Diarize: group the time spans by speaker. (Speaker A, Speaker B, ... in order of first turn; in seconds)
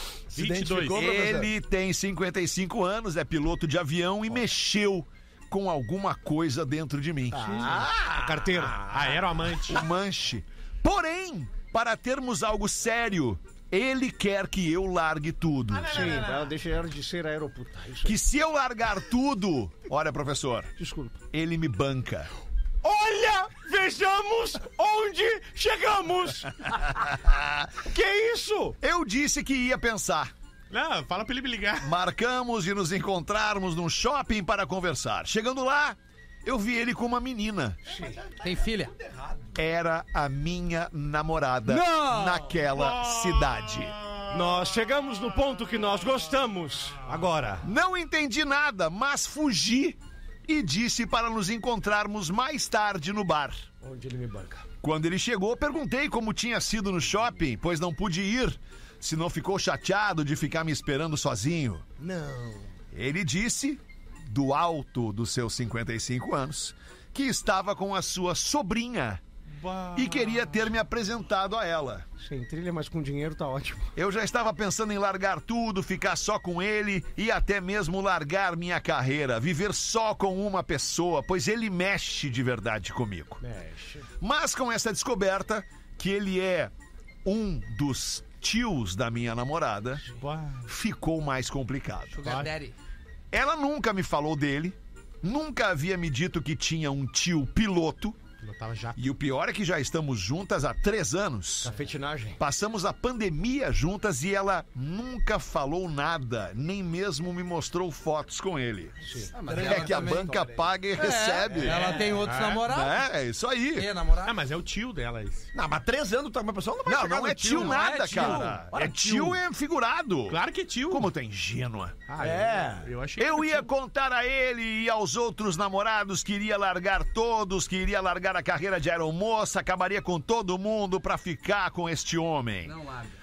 Speaker A: 0.3-1.5, 7.3-9.2, 15.9-16.5, 37.9-39.6, 109.4-110.7, 115.5-118.4, 122.2-122.9
Speaker B: 0.3-1.0, 8.6-9.8, 30.7-31.9, 42.7-44.7, 69.5-70.7, 90.1-90.7, 92.2-92.5, 98.4-99.0, 111.6-112.6, 114.2-115.5, 118.2-119.3, 120.3-121.1, 122.1-123.7
Speaker C: 0.9-7.8, 9.7-16.3, 18.0-20.7, 21.3-22.3, 27.1-27.7, 28.8-30.3, 31.8-37.9, 39.5-43.9, 47.6-53.6, 54.8-61.8, 62.9-69.2, 69.9-72.0, 74.0-83.4, 84.2-86.7, 87.2-90.0, 90.7-92.2, 93.3-98.2, 99.0-101.8, 102.4-113.9, 116.8-122.0, 123.2-132.7
Speaker D: 7.3-8.9, 15.8-18.1, 20.8-21.2, 22.8-27.0, 27.8-28.8, 37.9-38.2, 44.3-47.6, 53.8-54.6, 62.0-62.7, 72.2-73.9, 83.4-84.1, 101.6-102.4, 109.0-110.1
Speaker E: 38.4-38.9, 41.6-42.6, 92.1-92.7, 109.3-110.3, 110.9-113.1, 113.7-114.4, 117.5-118.6, 132.6-133.1